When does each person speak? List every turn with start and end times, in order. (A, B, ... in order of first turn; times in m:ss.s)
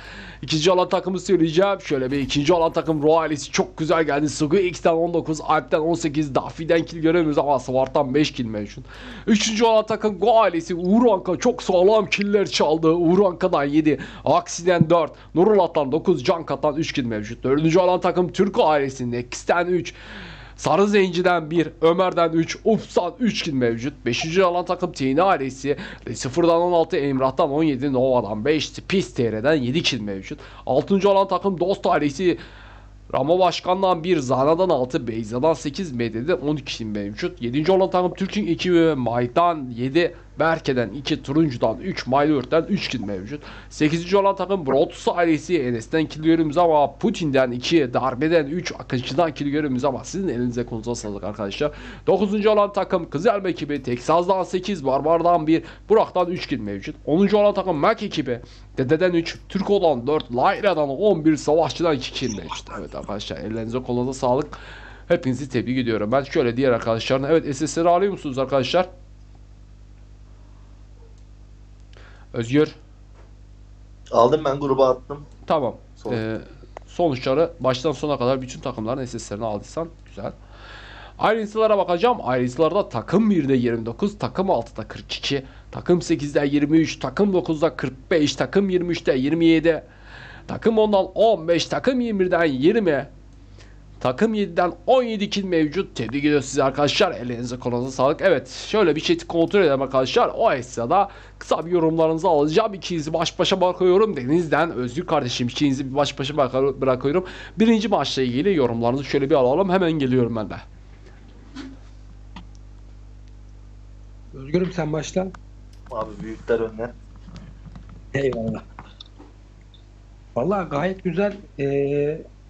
0:00.4-0:20.0 A
0:20.6-0:32.4 A
0:33.1-1:08.9 A
1:12.3-1:12.8 A
1:14.1-1:15.3 B
1:15.4-1:20.4 A
1:21.2-1:29.8 A
1:30.5-1:33.1 A
1:34.0-1:50.6 A
1:54.3-1:55.3 C
1:55.9-1:56.9 B
1:58.1-1:58.6 C
2:00.4-2:02.2 C